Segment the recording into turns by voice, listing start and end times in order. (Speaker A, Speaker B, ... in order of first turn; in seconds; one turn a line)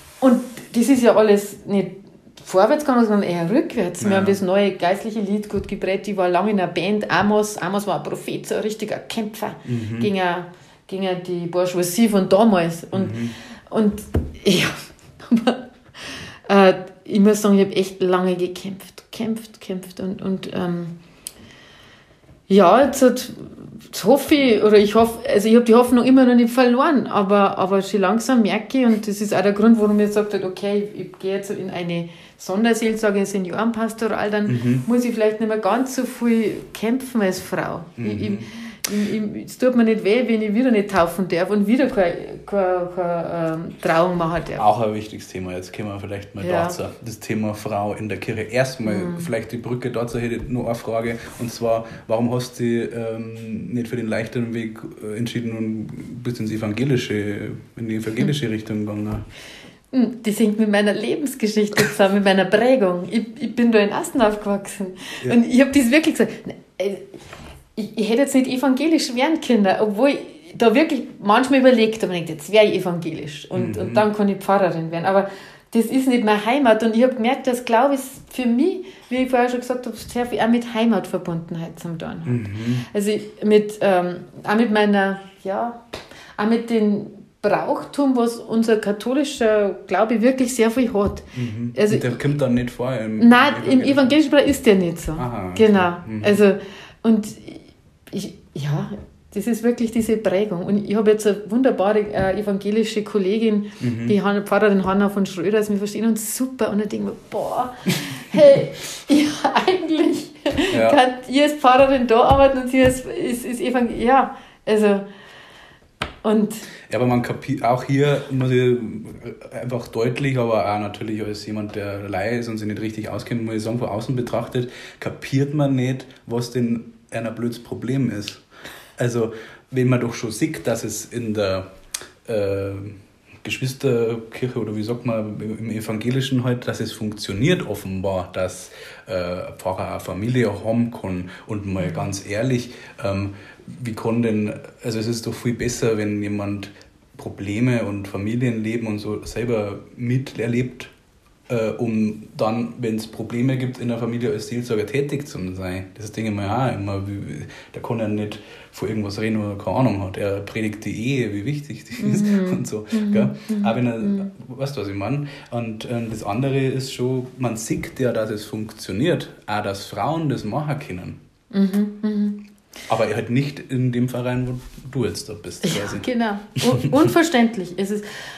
Speaker A: 0.2-13.2
Speaker B: 4.0-4.4
Speaker B: 9.7-10.1
Speaker B: 12.9-13.3
Speaker A: 13.7-20.9
Speaker A: 22.5-44.7
Speaker B: 34.5-34.9
Speaker B: 38.0-38.5
Speaker B: 44.6-59.2
Speaker A: 46.4-46.8
Speaker A: 48.9-49.3
Speaker A: 59.9-67.1
Speaker A: 67.8-85.8
Speaker B: 73.5-74.0
Speaker B: 82.3-82.9
Speaker A: 86.4-92.2
Speaker B: 91.3-94.2
Speaker A: 93.2-115.0
Speaker B: 95.2-96.4
Speaker B: 103.8-104.2
Speaker B: 110.7-111.0
Speaker A: 116.2-116.7
Speaker B: 116.9-128.4
Speaker B: 129.0-131.7
Speaker B: 132.2-150.9
Speaker B: 151.5-171.2
Speaker A: 162.0-164.3
Speaker A: 171.5-172.4
Speaker B: 172.9-176.1
Speaker A: 175.6-178.1
Speaker B: 176.7-177.1